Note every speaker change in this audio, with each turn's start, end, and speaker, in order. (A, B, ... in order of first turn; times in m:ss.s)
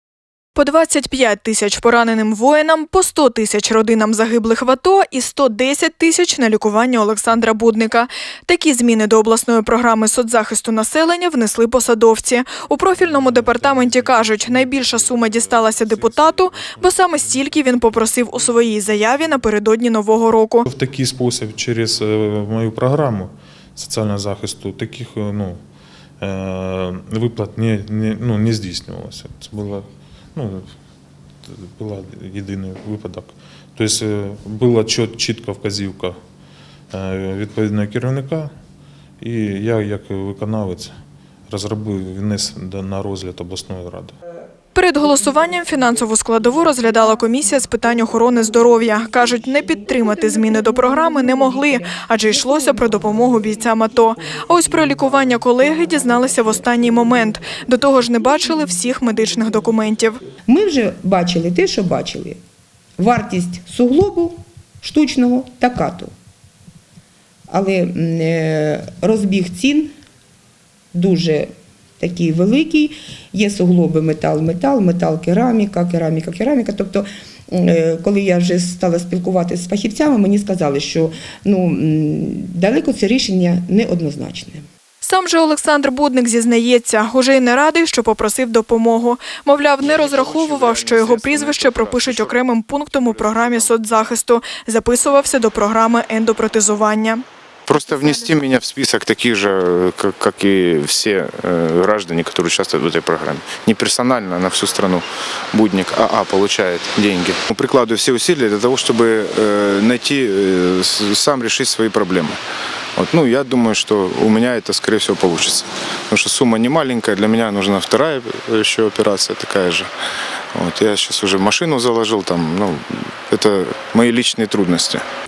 0:00.5-0:20.7 A
0:12.9-0:17.6 B
0:20.6-0:25.6 B
0:26.2-0:30.7 B
0:31.4-0:36.2 B
0:36.9-0:38.5 B
0:39.2-0:41.0 B
0:41.5-0:44.1 B
0:44.7-1:00.2 A
0:50.0-0:53.4 C
0:56.0-0:56.3 C
1:00.4-1:02.4 C
1:03.0-1:06.1 C
1:07.5-1:09.9 C
1:10.9-1:24.6 C
1:25.0-1:37.2 A
1:29.8-1:34.2 D
1:37.7-1:52.4 D
1:53.0-1:59.9 D
2:00.5-2:05.0 D